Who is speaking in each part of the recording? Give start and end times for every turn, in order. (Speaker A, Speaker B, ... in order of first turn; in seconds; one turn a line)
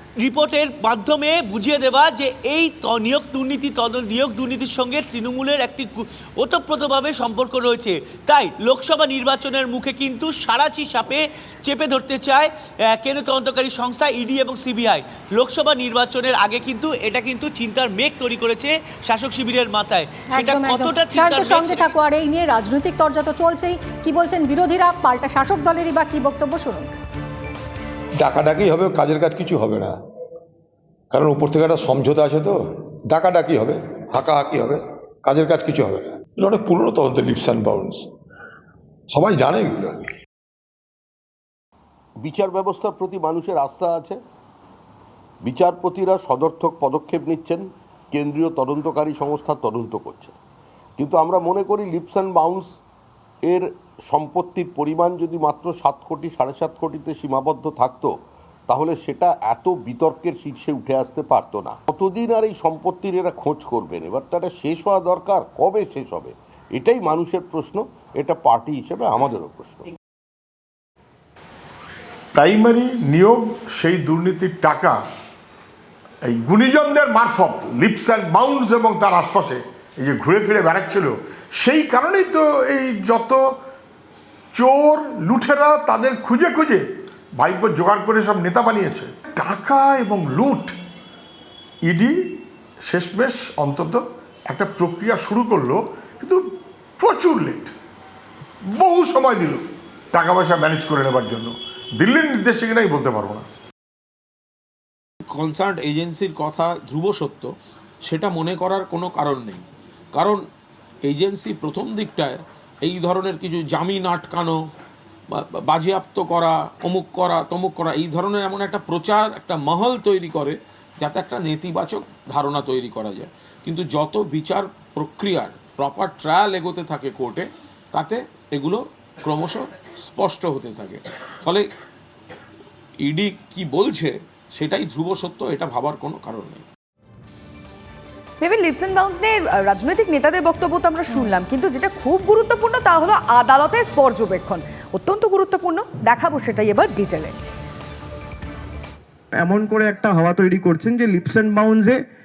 Speaker A: 0.2-21.9
Speaker B: 20.3-26.9
Speaker C: 28.2-30.0
Speaker C: 31.1-38.1
Speaker C: 39.1-40.1
Speaker D: 42.2-44.2
Speaker D: 45.4-50.3
Speaker D: 51.0-52.7
Speaker D: 53.5-58.1
Speaker D: 58.7-69.9
Speaker E: 72.3-75.0
Speaker E: 76.2-83.4
Speaker E: 84.5-86.8
Speaker E: 87.4-90.7
Speaker E: 91.9-92.1
Speaker E: 92.9-96.4
Speaker E: 97.0-97.7
Speaker E: 98.8-103.4
Speaker F: 105.2-107.5
Speaker F: 108.0-110.4
Speaker F: 111.0-114.6
Speaker F: 115.3-131.6
Speaker F: 133.0-136.6
Speaker G: 138.4-147.3
Speaker H: 149.3-152.0